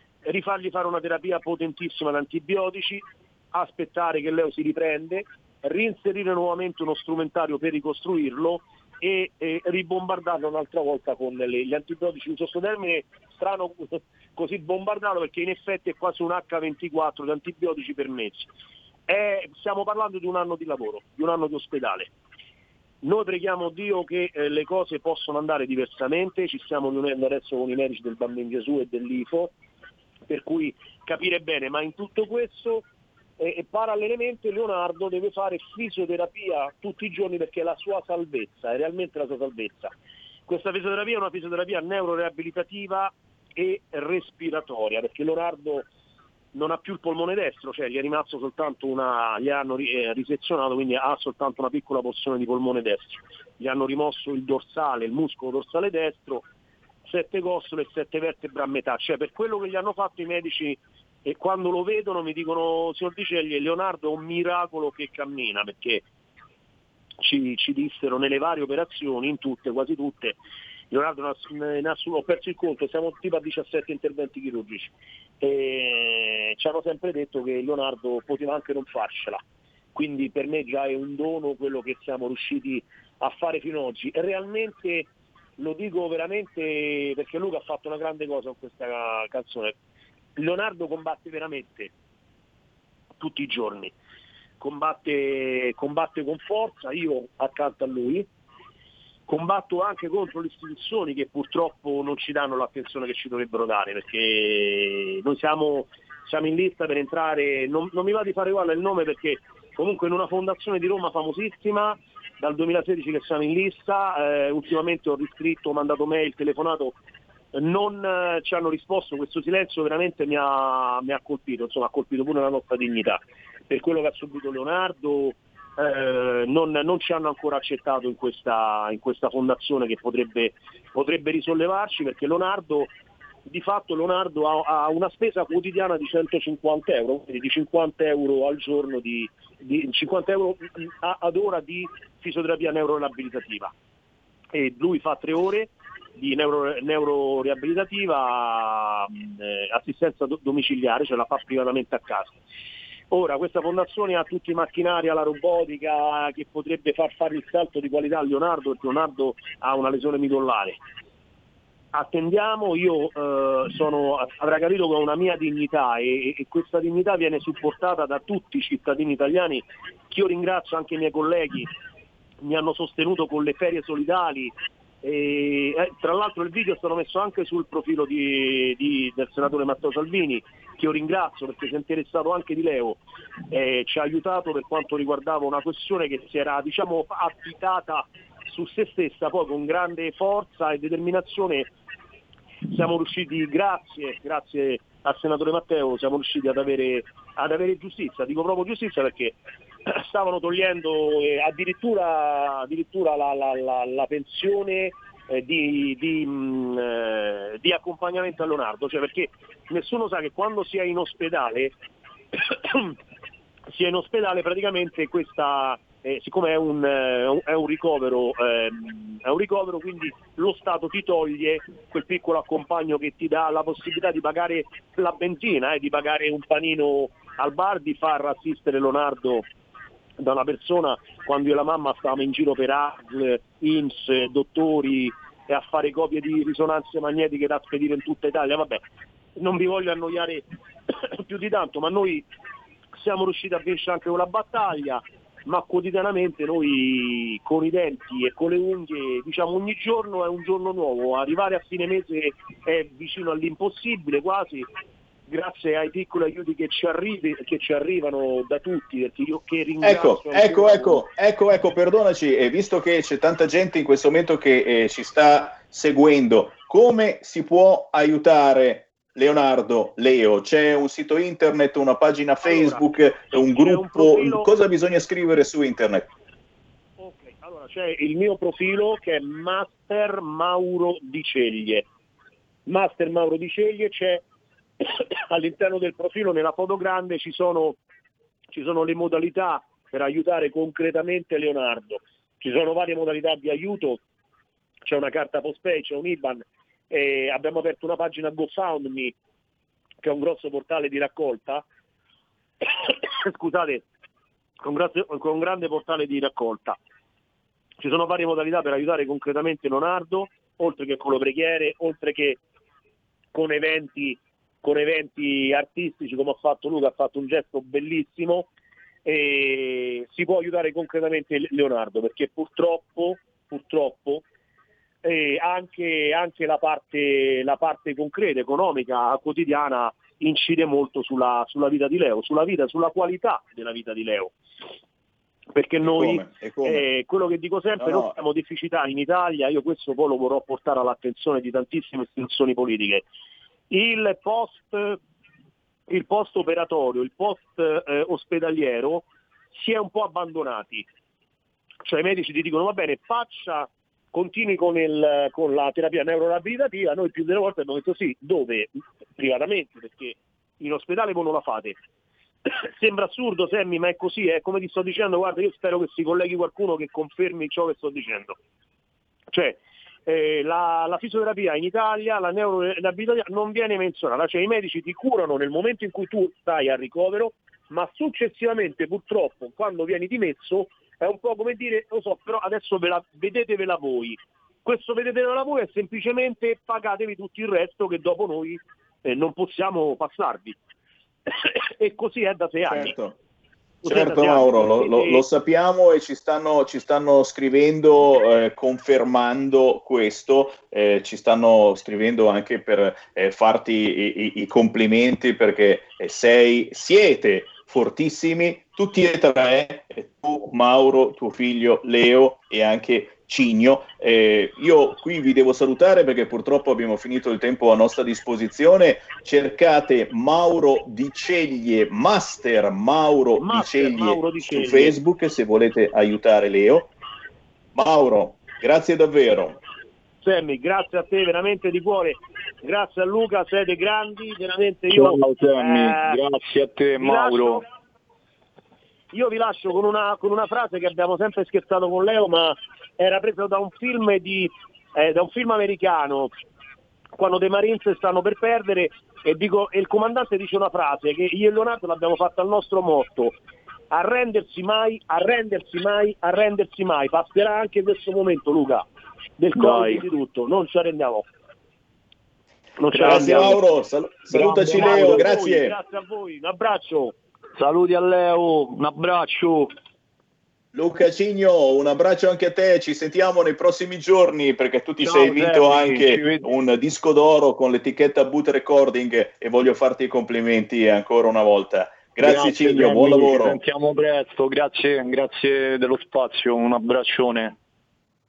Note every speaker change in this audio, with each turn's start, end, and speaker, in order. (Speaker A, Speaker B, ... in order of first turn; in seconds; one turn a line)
Speaker A: 0.3-18.5
Speaker A: 19.1-22.1
Speaker A: 23.0-29.5
Speaker A: 30.3-32.8
Speaker A: 33.4-39.9
Speaker A: 40.5-45.9
Speaker A: 46.5-56.5
Speaker A: 57.1-66.0
Speaker A: 67.2-70.4
Speaker A: 70.9-79.4
Speaker A: 80.0-85.1
Speaker A: 85.6-89.7
Speaker A: 90.4-91.9
Speaker A: 93.2-93.9
Speaker A: 94.6-98.3
Speaker A: 99.3-117.0
Speaker A: 117.5-132.9
Speaker A: 133.5-143.7
Speaker A: 144.5-152.4
Speaker A: 153.1-160.8
Speaker A: 161.9-171.7
Speaker A: 172.4-183.0
Speaker A: 183.5-191.7
Speaker A: 192.7-199.4
Speaker A: 199.9-211.7
Speaker A: 212.5-212.9
Speaker A: 213.7-229.4
Speaker A: 230.2-238.8
Speaker A: 239.4-240.4
Speaker A: 241.1-242.3
Speaker A: 243.0-254.7
Speaker A: 255.3-261.0
Speaker B: 259.8-276.1
Speaker A: 272.4-274.5
Speaker A: 277.0-281.9
Speaker A: 282.7-284.2
Speaker A: 285.3-287.8
Speaker A: 288.5-294.0
Speaker A: 294.9-299.1
Speaker A: 300.0-301.6
Speaker A: 302.8-303.9
Speaker A: 304.6-306.8
Speaker A: 307.8-312.4
Speaker A: 313.3-318.5
Speaker A: 319.1-324.2
Speaker A: 325.0-334.3
Speaker A: 335.5-343.0
Speaker B: 335.8-336.8
Speaker B: 337.8-338.2
Speaker A: 343.7-345.0
Speaker A: 345.9-350.9
Speaker A: 351.9-361.8
Speaker A: 362.5-368.4
Speaker A: 369.3-390.6
Speaker A: 391.4-392.9
Speaker B: 392.7-393.1
Speaker A: 393.8-395.2
Speaker B: 393.9-426.9
Speaker A: 423.4-425.0
Speaker B: 427.7-429.6
Speaker A: 430.2-436.2
Speaker C: 434.9-437.6
Speaker A: 437.0-437.6
Speaker A: 439.1-446.3
Speaker A: 447.2-453.4
Speaker A: 453.9-458.9
Speaker A: 459.4-461.3
Speaker C: 459.6-460.1
Speaker A: 462.8-463.6
Speaker C: 463.0-463.4
Speaker B: 463.0-465.7
Speaker C: 464.3-465.3
Speaker A: 464.7-467.1
Speaker C: 467.6-469.7
Speaker B: 470.7-483.6
Speaker C: 475.0-476.5
Speaker C: 482.2-487.6